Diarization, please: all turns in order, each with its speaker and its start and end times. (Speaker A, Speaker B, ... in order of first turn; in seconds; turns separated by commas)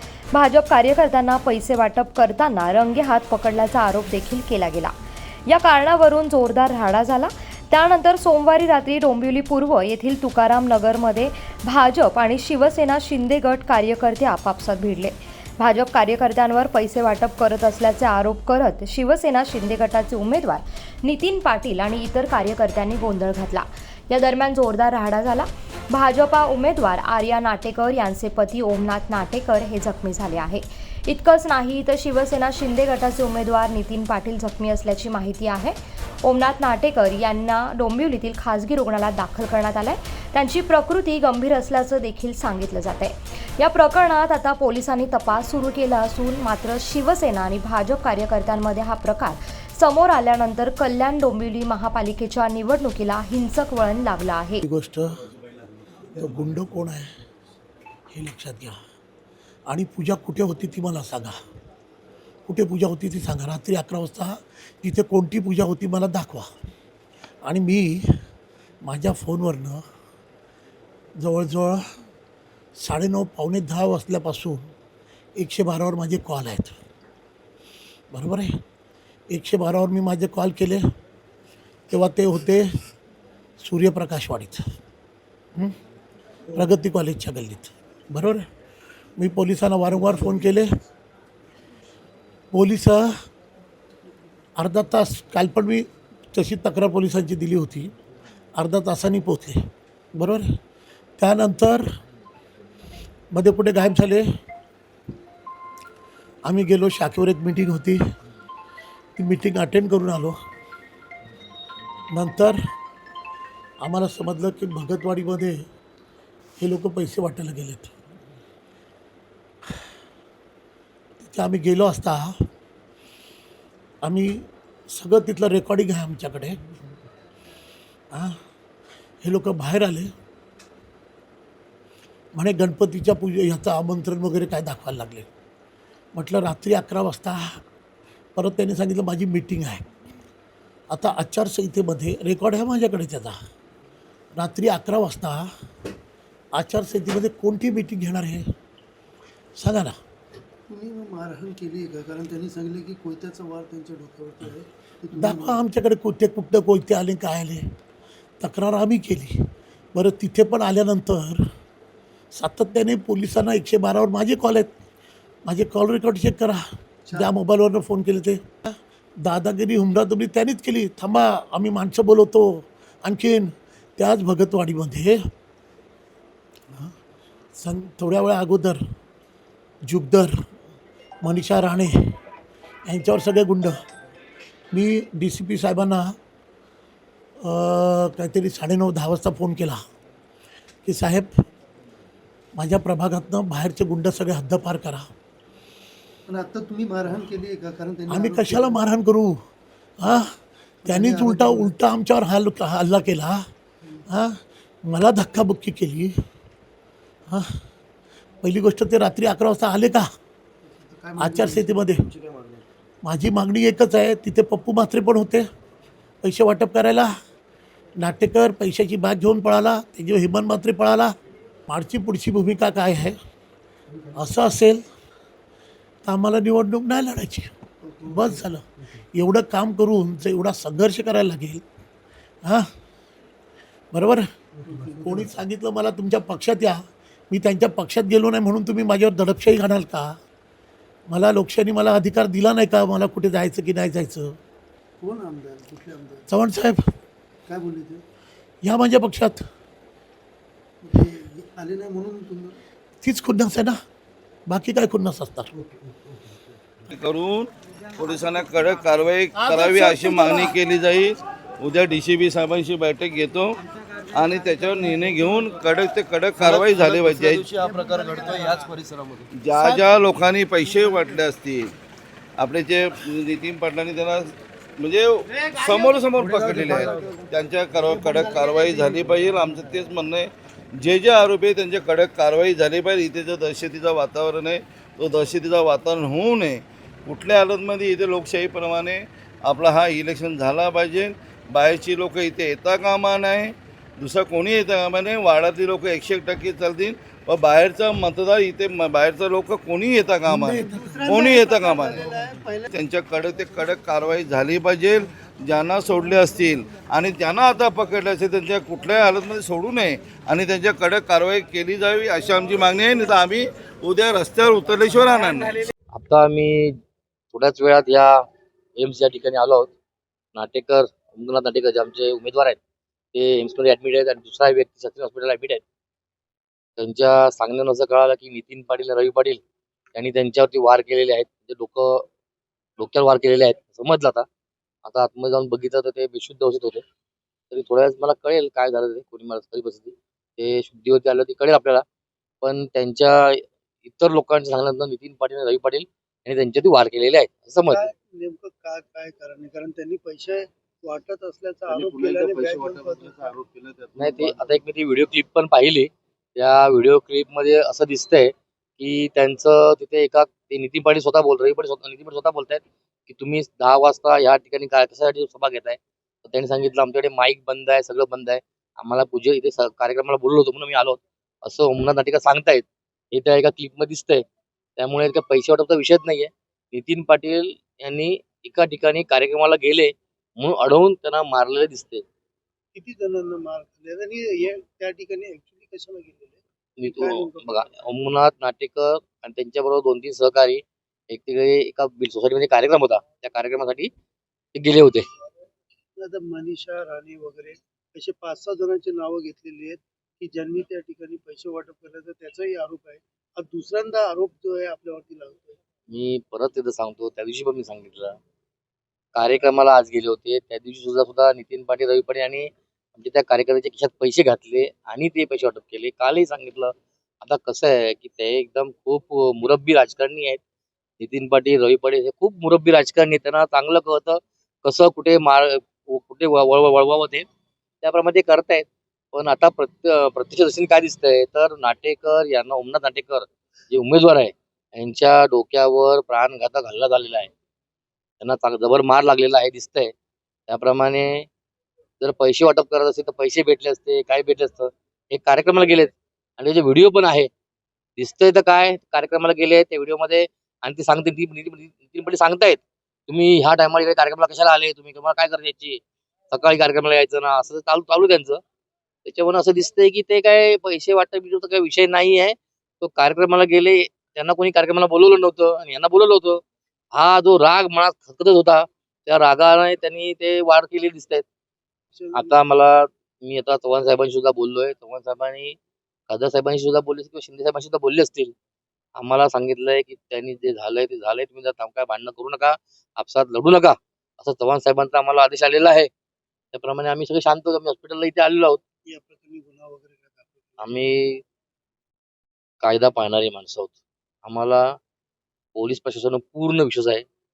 Speaker A: 0.3-4.9, Speaker A: 5.5-54.6, Speaker B: 54.6-55.2, Speaker B: 56.1-57.1, Speaker B: 58.1-58.8, Speaker B: 59.7-61.4, Speaker B: 62.5-66.5, Speaker B: 67.5-68.2, Speaker B: 68.8-69.8, Speaker B: 71.2-71.8, Speaker B: 72.8-74.7, Speaker B: 75.4-76.8, Speaker B: 78.1-78.5, Speaker B: 79.3-80.8, Speaker B: 81.9-82.7, Speaker B: 83.6-84.7, Speaker B: 86.5-88.5, Speaker B: 89.2-90.7, Speaker B: 92.5-93.1, Speaker B: 94.6-97.9, Speaker B: 98.6-99.6, Speaker B: 100.2-100.5, Speaker B: 101.2-101.8, Speaker B: 103.3-104.2, Speaker B: 106.5-108.0, Speaker B: 109.2-110.4, Speaker B: 112.1-112.6, Speaker B: 113.8-115.6, Speaker B: 116.6-117.9, Speaker B: 121.2-122.3, Speaker B: 124.0-126.6, Speaker B: 129.2-130.1, Speaker B: 132.3-135.3, Speaker B: 136.2-137.6, Speaker B: 138.4-139.8, Speaker B: 140.9-143.4, Speaker B: 144.4-145.5, Speaker B: 146.6-148.5, Speaker B: 149.6-150.0, Speaker C: 150.7-155.6, Speaker B: 155.2-157.6, Speaker B: 158.4-159.4, Speaker B: 159.9-161.4, Speaker B: 162.3-164.7, Speaker B: 165.5-175.2, Speaker B: 177.6-178.8, Speaker B: 179.8-180.3, Speaker B: 181.2-182.2, Speaker B: 182.9-183.8, Speaker B: 184.7-186.2, Speaker B: 187.4-189.8, Speaker B: 190.8-191.3, Speaker B: 192.6-195.1, Speaker C: 196.3-198.8, Speaker B: 198.1-199.4, Speaker B: 200.0-200.3, Speaker C: 200.8-201.7, Speaker B: 200.9-203.4, Speaker B: 204.1-206.2, Speaker B: 207.3-207.6, Speaker B: 208.4-210.1, Speaker C: 210.7-211.9, Speaker B: 211.2-212.1, Speaker B: 213.0-215.5, Speaker B: 216.2-217.1, Speaker B: 218.0-221.1, Speaker B: 221.7-223.2, Speaker B: 224.2-224.8, Speaker B: 226.1-227.5, Speaker C: 227.8-228.4, Speaker B: 228.1-231.6, Speaker B: 233.9-234.3, Speaker C: 234.6-235.3, Speaker B: 235.0-240.1, Speaker B: 241.1-244.4, Speaker C: 245.0-246.3, Speaker B: 246.3-246.8, Speaker C: 247.5-248.1, Speaker B: 248.6-249.4, Speaker C: 250.8-252.6, Speaker B: 253.0-253.8, Speaker B: 254.5-255.5, Speaker D: 256.9-263.6, Speaker D: 264.1-267.6, Speaker E: 266.5-269.3, Speaker D: 269.4-271.7, Speaker D: 272.4-302.1, Speaker E: 276.4-276.9, Speaker B: 300.3-301.1, Speaker C: 300.7-302.7, Speaker D: 302.7-315.6, Speaker F: 315.9-316.8, Speaker F: 317.3-318.2, Speaker F: 318.8-319.7, Speaker F: 320.4-322.6, Speaker F: 323.1-325.6, Speaker F: 326.8-329.4, Speaker F: 329.9-332.1, Speaker F: 332.8-334.3, Speaker F: 334.9-336.8, Speaker F: 337.5-341.8, Speaker F: 342.4-347.8, Speaker C: 347.7-353.3, Speaker D: 351.7-354.3, Speaker F: 354.0-374.2, Speaker F: 374.8-382.0, Speaker C: 382.7-387.5, Speaker F: 386.8-393.9, Speaker F: 394.6-395.1, Speaker C: 396.0-405.6, Speaker F: 405.9-408.2, Speaker F: 409.1-420.4, Speaker F: 421.0-427.3, Speaker F: 427.8-437.3, Speaker F: 438.2-439.9, Speaker F: 440.5-441.3, Speaker F: 442.0-447.3, Speaker F: 448.0-458.4, Speaker F: 459.1-466.4, Speaker F: 466.9-471.2, Speaker C: 471.9-472.3, Speaker F: 472.1-475.6, Speaker F: 476.1-478.3, Speaker F: 479.0-485.9, Speaker F: 486.5-488.6, Speaker C: 488.9-489.8, Speaker F: 490.6-491.2, Speaker F: 492.6-494.6, Speaker F: 495.6-497.1